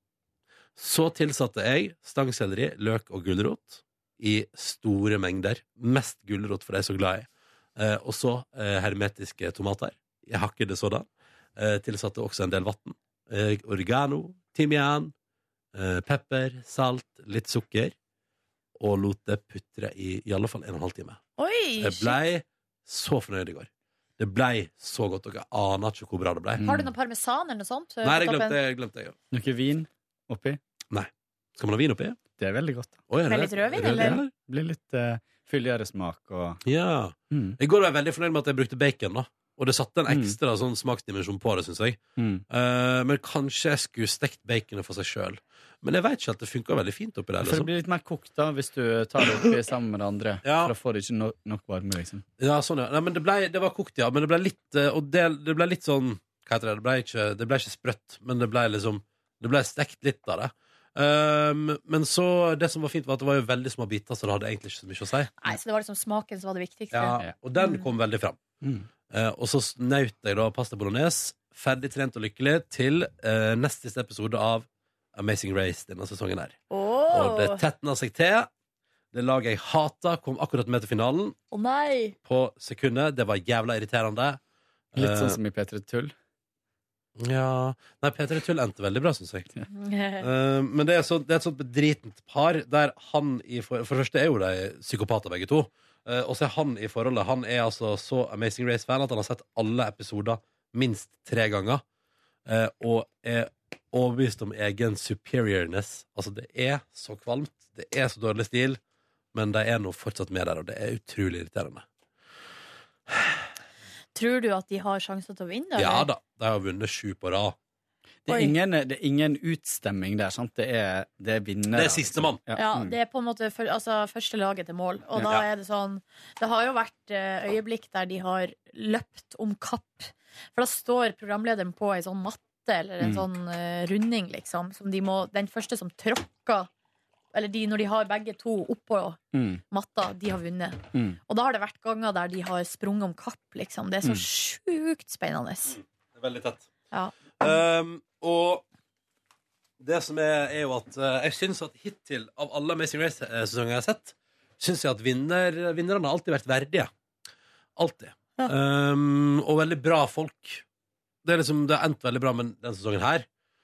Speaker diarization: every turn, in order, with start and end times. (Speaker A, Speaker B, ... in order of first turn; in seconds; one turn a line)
Speaker A: 0.8-15.1
Speaker A: 15.7-17.9
Speaker A: 18.8-21.2
Speaker B: 21.4-22.2
Speaker A: 21.8-26.6
Speaker C: 26.6-26.9
Speaker B: 26.6-28.6
Speaker A: 28.0-29.1
Speaker C: 29.3-30.6
Speaker A: 30.9-32.2
Speaker C: 32.3-33.1
Speaker A: 33.1-34.3
Speaker B: 33.2-34.2
Speaker C: 33.8-36.6
Speaker A: 36.6-47.7
Speaker C: 37.3-37.6
Speaker C: 40.1-40.4
Speaker C: 42.2-42.4
Speaker C: 47.4-52.2
Speaker A: 50.4-50.7
Speaker A: 52.4-65.3
Speaker B: 65.4-67.9
Speaker A: 66.9-68.4
Speaker C: 68.6-68.9
Speaker A: 69.1-76.6
Speaker B: 76.7-77.6
Speaker A: 77.1-78.5
Speaker A: 79.1-81.3
Speaker B: 81.5-82.1
Speaker A: 82.2-84.4
Speaker A: 84.9-85.4
Speaker C: 85.0-86.1
Speaker A: 87.2-89.5
Speaker B: 89.7-90.2
Speaker A: 90.2-101.8
Speaker A: 102.5-108.8
Speaker A: 109.3-111.8
Speaker A: 113.1-113.4
Speaker B: 114.1-116.1
Speaker A: 115.8-117.5
Speaker C: 118.2-122.9
Speaker B: 118.3-118.5
Speaker A: 121.7-122.4
Speaker B: 122.5-136.7
Speaker A: 125.2-125.4
Speaker B: 137.3-145.8
Speaker C: 139.3-139.6
Speaker A: 145.7-146.7
Speaker B: 146.9-147.5
Speaker A: 147.4-148.6
Speaker A: 149.8-156.9
Speaker A: 157.8-160.6
Speaker A: 161.2-163.2